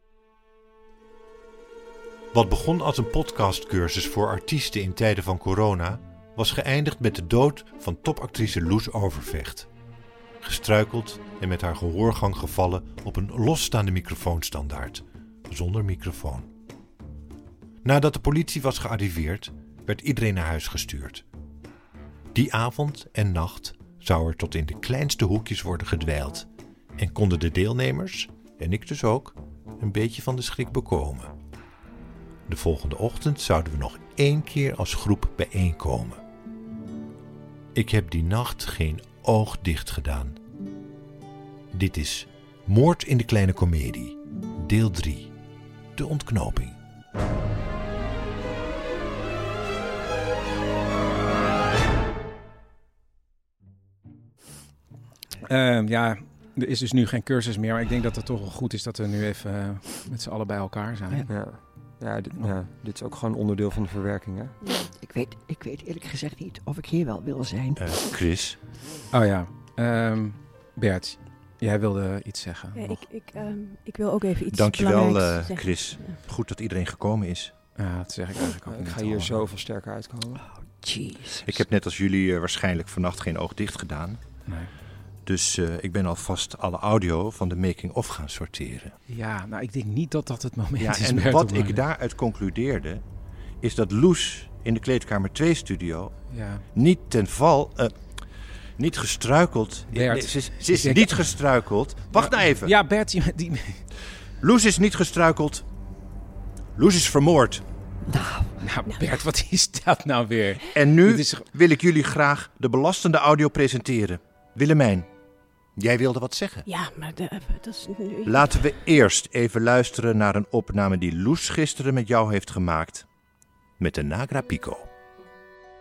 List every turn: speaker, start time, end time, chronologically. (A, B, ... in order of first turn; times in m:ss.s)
0:02.3-0:09.7 A
0:10.4-0:16.5 A
0:17.8-0:21.2 A
0:22.3-0:26.5 A
0:27.0-0:31.3 A
0:32.5-0:36.2 A
0:37.7-0:40.4 A
0:41.7-0:45.3 A
0:46.0-0:46.8 A
0:55.5-1:01.2 B
1:01.3-1:04.6 C
1:04.6-1:04.9 D
1:05.1-1:07.7 E
1:07.8-1:08.6 A
1:09.1-1:13.0 B
1:12.7-1:16.2 D
1:14.5-1:17.5 A
1:17.8-1:19.5 B
1:18.6-1:20.4 C
1:20.8-1:21.3 E
1:21.4-1:24.2 A
1:25.2-1:28.9 A
1:29.1-1:31.8 B
1:30.8-1:33.0 A
1:33.6-1:36.1 A
1:36.3-1:36.6 B
1:36.7-1:37.9 A
1:38.8-1:42.7 A
1:39.9-1:41.2 B
1:42.1-1:43.8 B
1:44.4-1:45.6 A
1:46.8-1:47.6 A
1:48.6-1:51.4 B
1:50.7-1:55.1 A
1:55.8-1:56.7 A
1:56.6-1:58.6 D
1:58.2-2:03.0 A
2:03.8-2:04.9 A